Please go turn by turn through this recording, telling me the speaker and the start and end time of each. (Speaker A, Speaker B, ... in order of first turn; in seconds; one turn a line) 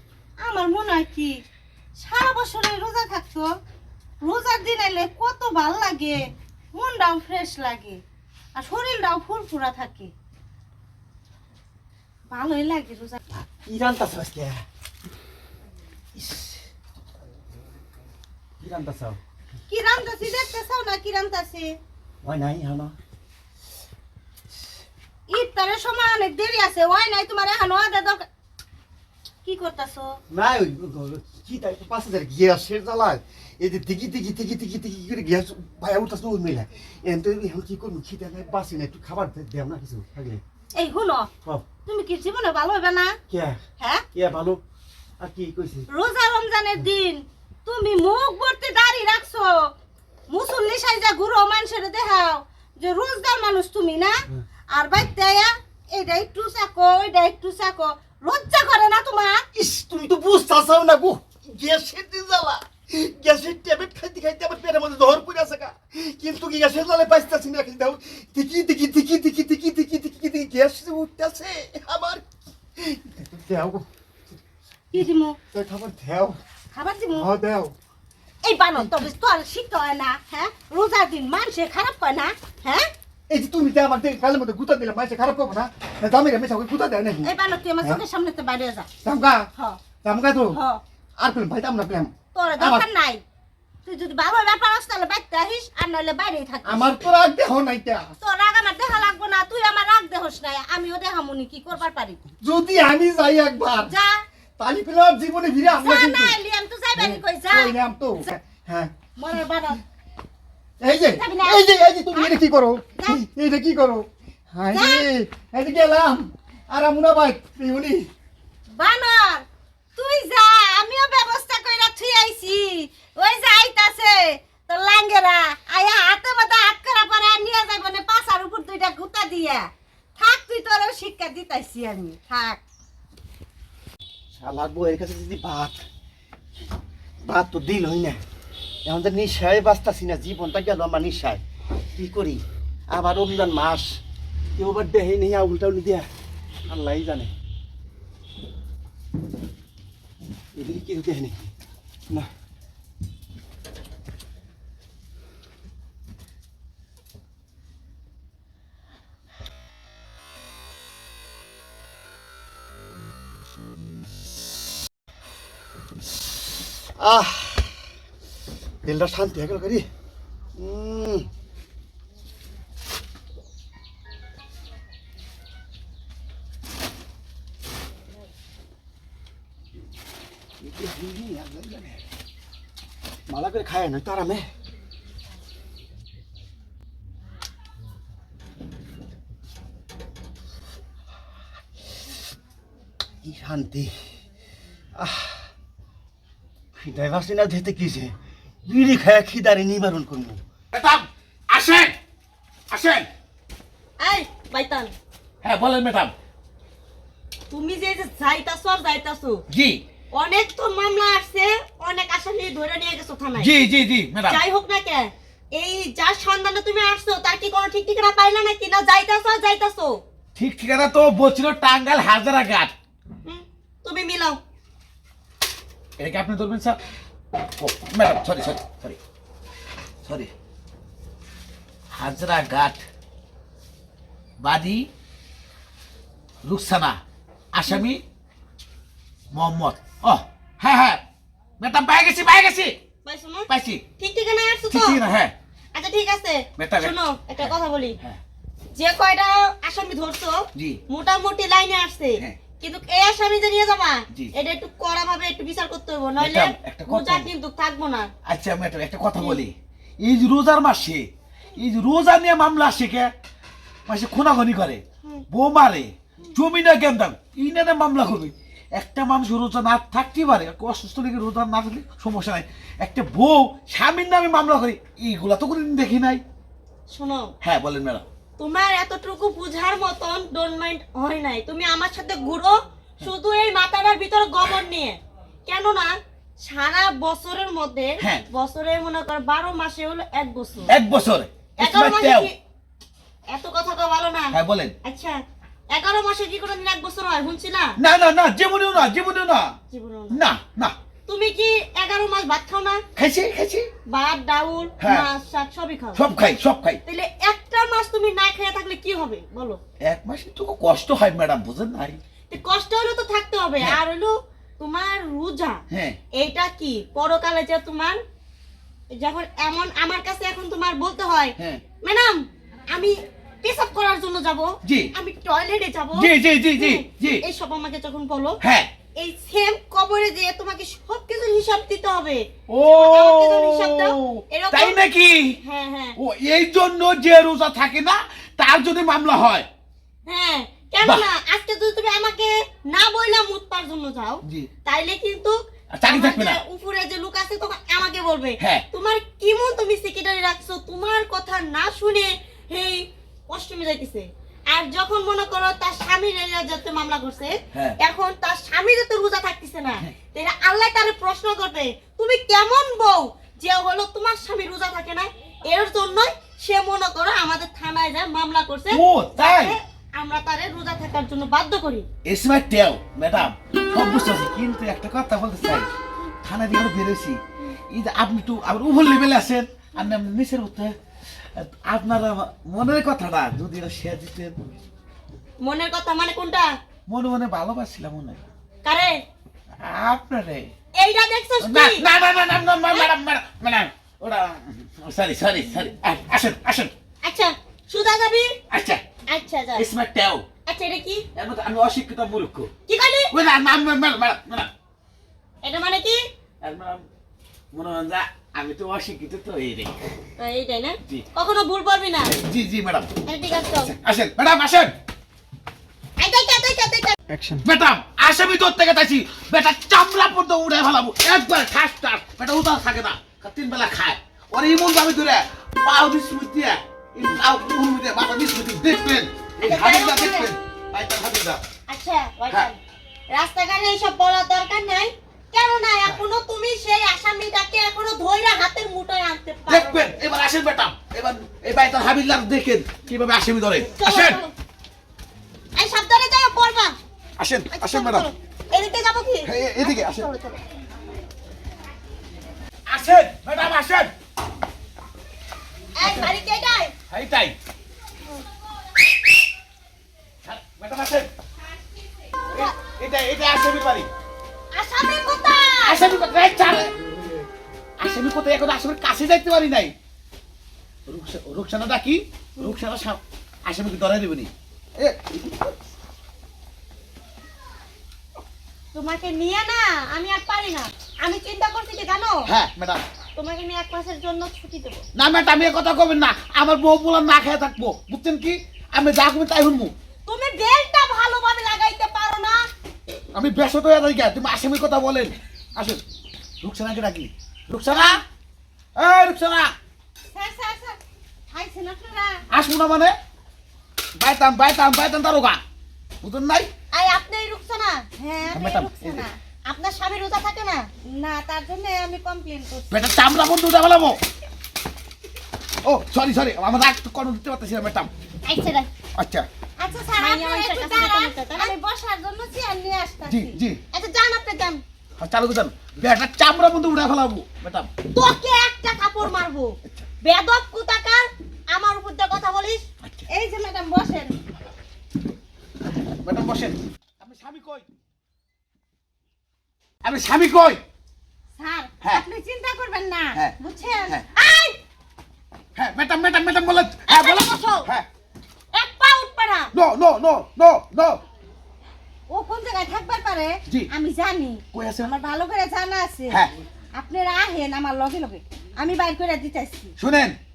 Speaker A: 0.4-1.4
Speaker A: 2.0-3.5
Speaker A: 4.2-8.0
Speaker A: 8.5-10.1
Speaker A: 12.3-13.2
Speaker B: 13.3-14.6
Speaker B: 16.1-16.5
Speaker B: 18.6-19.1
Speaker A: 19.7-21.8
Speaker B: 22.2-22.9
Speaker A: 25.3-28.3
Speaker A: 29.4-30.2
Speaker B: 30.3-40.4
Speaker A: 40.7-41.3
Speaker A: 41.8-43.2
Speaker B: 43.3-43.6
Speaker A: 43.8-44.0
Speaker B: 44.1-44.6
Speaker B: 45.2-45.9
Speaker A: 45.9-49.7
Speaker A: 50.3-54.1
Speaker A: 54.7-59.5
Speaker B: 59.5-72.2
Speaker B: 72.8-73.8
Speaker A: 74.9-75.4
Speaker B: 75.5-76.4
Speaker A: 76.7-77.3
Speaker B: 77.1-77.7
Speaker A: 78.4-82.9
Speaker B: 78.8-79.0
Speaker B: 83.3-88.0
Speaker A: 87.2-88.9
Speaker B: 89.0-89.5
Speaker A: 89.5-89.8
Speaker B: 90.0-90.6
Speaker A: 90.5-90.8
Speaker B: 91.2-92.9
Speaker A: 92.3-93.2
Speaker A: 93.8-97.0
Speaker B: 96.6-98.1
Speaker A: 98.2-102.2
Speaker B: 102.4-103.9
Speaker A: 103.8-104.2
Speaker B: 104.6-106.4
Speaker A: 105.7-108.3
Speaker B: 107.0-109.0
Speaker A: 109.2-109.8
Speaker B: 110.8-118.1
Speaker A: 110.9-112.4
Speaker A: 113.0-113.2
Speaker A: 114.7-115.1
Speaker A: 118.7-119.4
Speaker A: 120.0-132.6
Speaker B: 134.4-135.8
Speaker B: 137.2-138.2
Speaker B: 138.8-141.4
Speaker B: 141.9-144.0
Speaker B: 144.5-146.1
Speaker B: 146.7-147.3
Speaker B: 150.5-151.5
Speaker B: 167.0-167.8
Speaker B: 168.8-169.9
Speaker B: 170.6-171.2
Speaker B: 180.6-181.9
Speaker B: 183.3-184.5
Speaker B: 193.2-193.9
Speaker B: 195.0-195.5
Speaker B: 196.8-198.1
Speaker B: 198.7-200.4
Speaker C: 200.7-201.9
Speaker C: 202.7-203.1
Speaker D: 204.0-204.9
Speaker C: 205.4-206.1
Speaker D: 207.5-209.4
Speaker C: 209.5-209.8
Speaker D: 210.1-213.6
Speaker C: 213.4-214.4
Speaker D: 214.3-220.0
Speaker C: 220.3-222.7
Speaker D: 223.2-224.4
Speaker C: 226.0-226.8
Speaker C: 227.6-229.0
Speaker C: 230.1-230.3
Speaker C: 231.9-232.8
Speaker C: 234.4-234.9
Speaker C: 236.4-237.0
Speaker C: 237.5-238.0
Speaker C: 239.3-241.0
Speaker C: 241.6-242.8
Speaker D: 243.0-245.0
Speaker C: 243.5-243.8
Speaker C: 244.7-245.3
Speaker D: 245.7-248.0
Speaker C: 246.6-248.2
Speaker D: 248.7-258.1
Speaker C: 256.2-257.3
Speaker C: 258.2-263.1
Speaker D: 259.2-259.4
Speaker C: 263.9-276.2
Speaker D: 276.9-277.3
Speaker C: 277.4-278.0
Speaker D: 278.4-285.9
Speaker D: 286.4-290.8
Speaker C: 288.0-288.2
Speaker C: 290.7-292.3
Speaker D: 291.6-292.4
Speaker D: 293.3-295.2
Speaker C: 294.3-294.7
Speaker D: 295.7-297.8
Speaker C: 297.8-299.5
Speaker D: 299.7-300.2
Speaker C: 300.1-300.8
Speaker D: 301.1-302.8
Speaker C: 302.9-303.7
Speaker D: 303.9-306.1
Speaker C: 304.8-305.1
Speaker C: 305.9-306.8
Speaker D: 306.9-309.6
Speaker C: 309.8-312.0
Speaker D: 312.3-315.6
Speaker C: 315.7-316.0
Speaker D: 316.1-318.0
Speaker D: 318.9-328.4
Speaker C: 324.6-324.9
Speaker C: 325.9-327.2
Speaker C: 328.4-328.7
Speaker D: 328.9-334.8
Speaker C: 332.5-335.4
Speaker D: 335.4-336.0
Speaker C: 336.0-339.5
Speaker D: 340.1-371.9
Speaker C: 345.7-346.4
Speaker C: 368.7-369.6
Speaker C: 372.0-375.7
Speaker C: 376.2-377.2
Speaker C: 377.7-380.7
Speaker C: 381.3-384.4
Speaker D: 385.4-386.5
Speaker C: 386.9-388.2
Speaker D: 388.6-389.0
Speaker C: 389.6-390.5
Speaker D: 390.8-391.9
Speaker C: 391.4-396.7
Speaker D: 397.0-398.4
Speaker C: 398.5-398.8
Speaker D: 399.1-399.6
Speaker C: 399.5-400.2
Speaker D: 400.4-401.1
Speaker C: 401.1-402.5
Speaker D: 402.7-403.2
Speaker C: 403.1-404.5
Speaker D: 405.4-406.0
Speaker C: 406.4-406.8
Speaker C: 407.5-409.7
Speaker D: 410.2-412.1
Speaker C: 412.1-412.9
Speaker D: 413.0-413.7
Speaker C: 413.6-414.7
Speaker D: 416.0-416.9
Speaker B: 417.1-417.4
Speaker C: 417.4-431.4
Speaker D: 429.4-430.3
Speaker D: 431.7-432.6
Speaker D: 433.1-439.9
Speaker C: 439.5-444.2
Speaker D: 443.7-444.3
Speaker D: 445.6-446.8
Speaker C: 447.2-448.1
Speaker D: 447.5-450.4
Speaker C: 449.2-450.1
Speaker C: 452.7-453.9
Speaker D: 455.8-456.7
Speaker C: 455.8-456.1
Speaker C: 456.9-457.3
Speaker C: 460.2-461.1
Speaker C: 462.3-463.9
Speaker D: 464.5-465.8
Speaker C: 465.6-466.7
Speaker C: 467.8-469.7
Speaker C: 470.9-475.5
Speaker D: 478.7-482.3
Speaker C: 482.3-482.8
Speaker D: 483.1-484.8
Speaker C: 484.9-489.7
Speaker D: 490.1-492.4
Speaker C: 493.1-495.8
Speaker C: 496.4-498.0
Speaker C: 498.8-499.5
Speaker A: 500.1-500.8
Speaker A: 501.3-502.2
Speaker C: 502.3-502.9
Speaker C: 504.0-505.4
Speaker C: 506.0-506.5
Speaker D: 506.7-507.9
Speaker A: 508.0-509.2
Speaker C: 508.3-509.1
Speaker D: 509.4-510.7
Speaker A: 510.8-512.8
Speaker C: 512.7-514.0
Speaker C: 515.6-517.9
Speaker D: 518.2-518.7
Speaker C: 518.9-519.3
Speaker A: 519.6-523.4
Speaker D: 520.0-521.5
Speaker C: 523.0-523.6
Speaker D: 523.7-524.6
Speaker C: 525.0-527.7
Speaker D: 527.9-532.6
Speaker A: 533.1-534.1
Speaker C: 536.0-537.7
Speaker C: 539.8-540.6
Speaker A: 541.4-544.6
Speaker C: 545.5-547.9
Speaker D: 546.9-547.6
Speaker D: 548.5-549.5
Speaker C: 549.5-551.0
Speaker A: 552.1-556.2
Speaker C: 554.5-554.9
Speaker A: 556.7-559.7
Speaker C: 559.8-560.1